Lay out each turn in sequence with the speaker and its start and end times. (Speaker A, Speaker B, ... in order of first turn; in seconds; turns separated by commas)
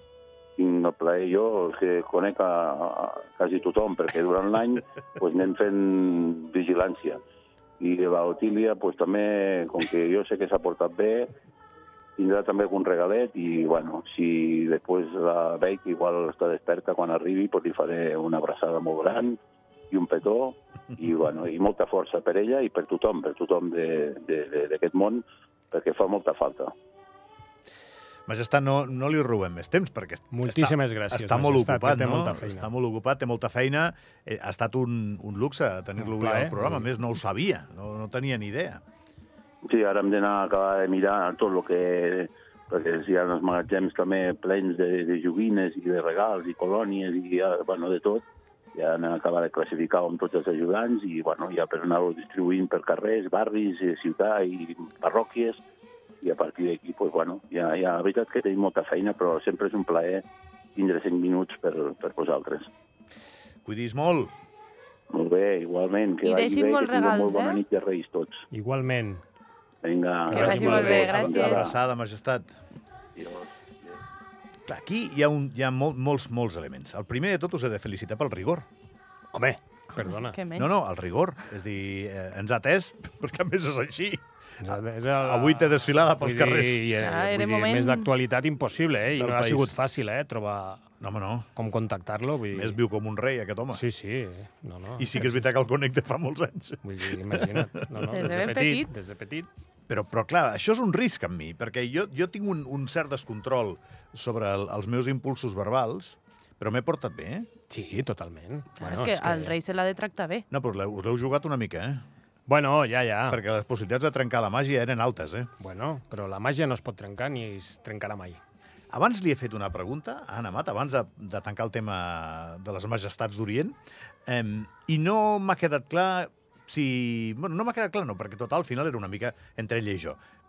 Speaker A: 0.6-7.2, Speaker A: 7.8-11.3, Speaker A: 12.2-19.4, Speaker A: 19.9-26.7, Speaker B: 28.3-38.8, Speaker C: 30.3-32.7, Speaker C: 36.0-36.9, Speaker A: 39.7-55.6, Speaker A: 56.2-60.2, Speaker A: 60.8-62.7, Speaker B: 63.6-64.3, Speaker A: 65.1-68.4, Speaker D: 66.2-67.6, Speaker C: 68.5-69.2, Speaker A: 69.8-71.8, Speaker C: 70.3-71.1, Speaker D: 70.3-71.8, Speaker B: 70.3-72.5, Speaker A: 73.2-73.5, Speaker B: 74.7-78.7, Speaker C: 79.3-80.4, Speaker D: 80.1-80.7, Speaker B: 80.6-84.2, Speaker C: 84.6-90.8, Speaker B: 85.2-86.9, Speaker D: 87.0-88.1, Speaker B: 89.2-89.7, Speaker B: 91.0-91.5, Speaker C: 91.6-92.8, Speaker B: 92.5-93.8, Speaker C: 93.7-95.5, Speaker B: 95.0-97.8, Speaker C: 96.8-99.5, Speaker D: 98.1-98.9, Speaker B: 99.9-107.5, Speaker C: 107.7-109.6, Speaker D: 108.8-110.5, Speaker B: 110.5-112.0, Speaker C: 112.5-113.4, Speaker B: 113.3-115.5, Speaker C: 115.6-118.4, Speaker B: 118.9-130.2